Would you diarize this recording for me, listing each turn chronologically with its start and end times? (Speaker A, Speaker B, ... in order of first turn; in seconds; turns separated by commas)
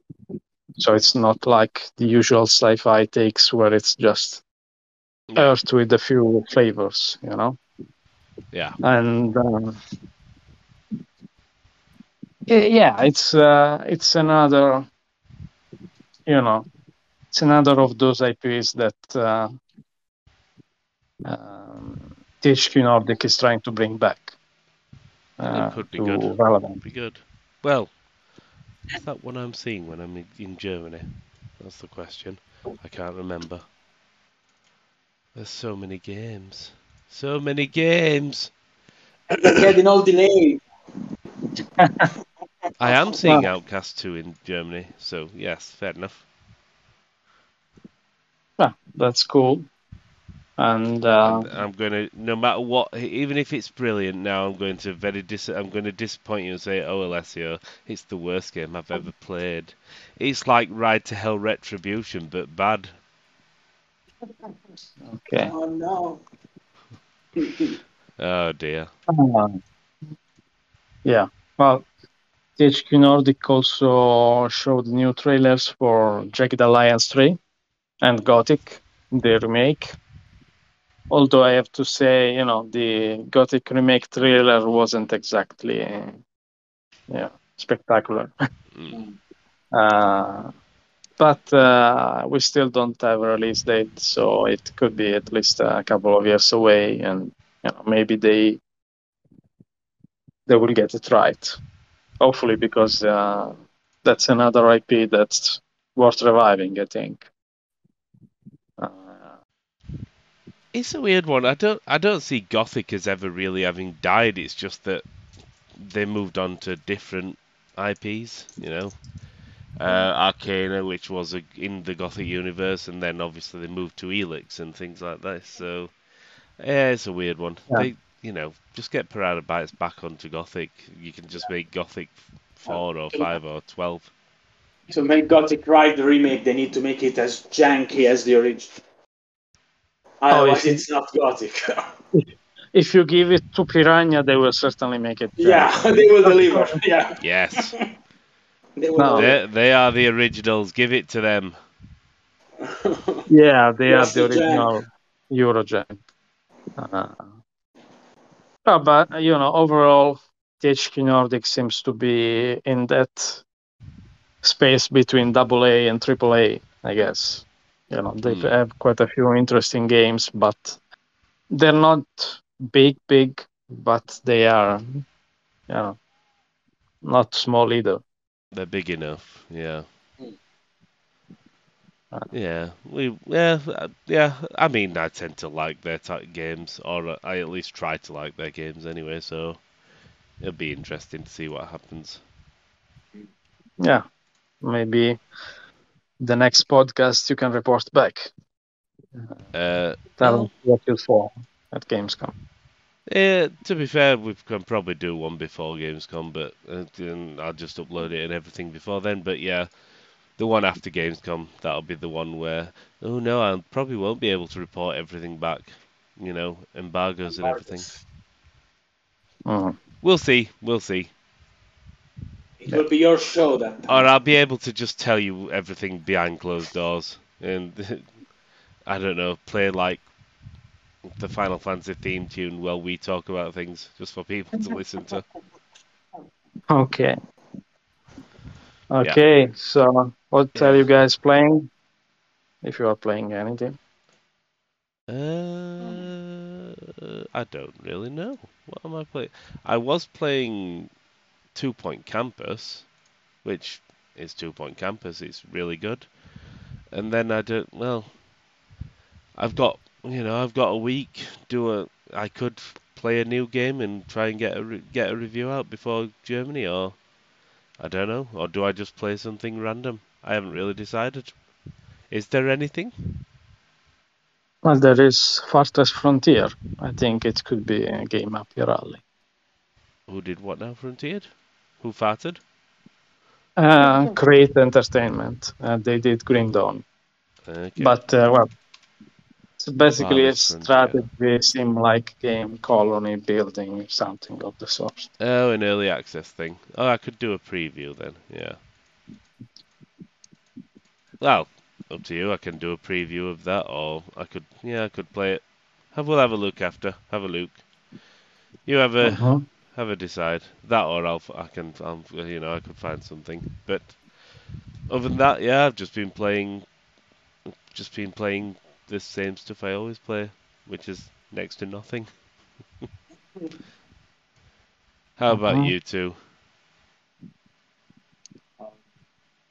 Speaker A: 0.8-4.4, Speaker A: 5.4-7.6, Speaker B: 8.5-8.8, Speaker A: 8.8-9.8, Speaker A: 12.5-14.9, Speaker A: 16.3-16.7, Speaker A: 17.3-19.5, Speaker A: 21.2-24.4, Speaker A: 25.4-26.8, Speaker B: 25.5-27.9, Speaker B: 29.0-31.1, Speaker B: 31.6-33.6, Speaker B: 35.4-38.5, Speaker C: 39.3-40.6, Speaker A: 41.8-42.0, Speaker B: 42.8-46.2, Speaker A: 48.6-49.7, Speaker A: 50.6-51.5, Speaker B: 51.2-62.9, Speaker A: 65.1-65.5, Speaker C: 65.4-66.2, Speaker C: 67.4-67.8, Speaker B: 68.2-68.9, Speaker A: 69.1-69.6, Speaker A: 71.0-71.9, Speaker A: 72.6-77.4, Speaker A: 78.0-80.0, Speaker A: 81.1-86.2, Speaker A: 87.1-88.3, Speaker C: 88.9-89.2, Speaker A: 89.7-90.5, Speaker A: 91.2-98.6, Speaker A: 100.5-101.6, Speaker A: 102.2-107.2, Speaker A: 108.8-109.2, Speaker B: 110.7-115.0, Speaker B: 115.8-119.0, Speaker B: 119.8-126.0, Speaker B: 126.6-134.1, Speaker C: 132.7-133.3, Speaker C: 134.9-138.8, Speaker C: 140.2-141.9, Speaker A: 140.3-140.8, Speaker A: 142.1-146.8, Speaker C: 145.4-147.8, Speaker B: 147.2-147.7, Speaker C: 148.8-149.4, Speaker A: 149.0-149.3, Speaker B: 149.1-151.6, Speaker C: 152.6-153.3, Speaker A: 153.3-156.0, Speaker C: 153.9-154.7, Speaker A: 156.8-157.3, Speaker A: 158.7-163.4, Speaker A: 164.4-170.8, Speaker B: 168.2-168.6, Speaker A: 171.5-175.0, Speaker A: 175.7-176.0, Speaker A: 177.0-178.0, Speaker B: 178.5-179.9, Speaker B: 182.3-189.6, Speaker B: 190.4-192.2, Speaker A: 194.6-195.2, Speaker A: 196.2-198.3, Speaker B: 199.5-200.5, Speaker A: 200.2-202.3, Speaker B: 203.1-209.7, Speaker B: 210.3-217.9, Speaker C: 217.3-218.0, Speaker A: 219.5-219.8, Speaker B: 220.0-221.1, Speaker C: 222.6-224.1, Speaker B: 223.9-228.1, Speaker B: 228.9-230.1, Speaker B: 231.1-235.2, Speaker A: 236.7-237.2, Speaker A: 238.9-241.7, Speaker B: 240.5-240.9, Speaker A: 242.6-243.8, Speaker B: 245.1-250.9, Speaker B: 251.5-252.9, Speaker B: 253.4-256.1, Speaker B: 256.9-258.1, Speaker B: 259.4-267.0, Speaker B: 267.8-271.4, Speaker B: 272.1-272.9, Speaker A: 274.6-279.0, Speaker B: 280.1-282.4, Speaker A: 283.6-286.9, Speaker B: 287.5-288.0, Speaker A: 287.8-288.5, Speaker A: 289.6-295.1, Speaker B: 290.0-291.1, Speaker B: 295.2-298.6, Speaker B: 301.2-307.6, Speaker B: 308.7-314.0, Speaker A: 309.0-309.4, Speaker B: 314.9-316.7, Speaker B: 317.7-322.1, Speaker B: 325.2-326.2, Speaker A: 325.3-325.7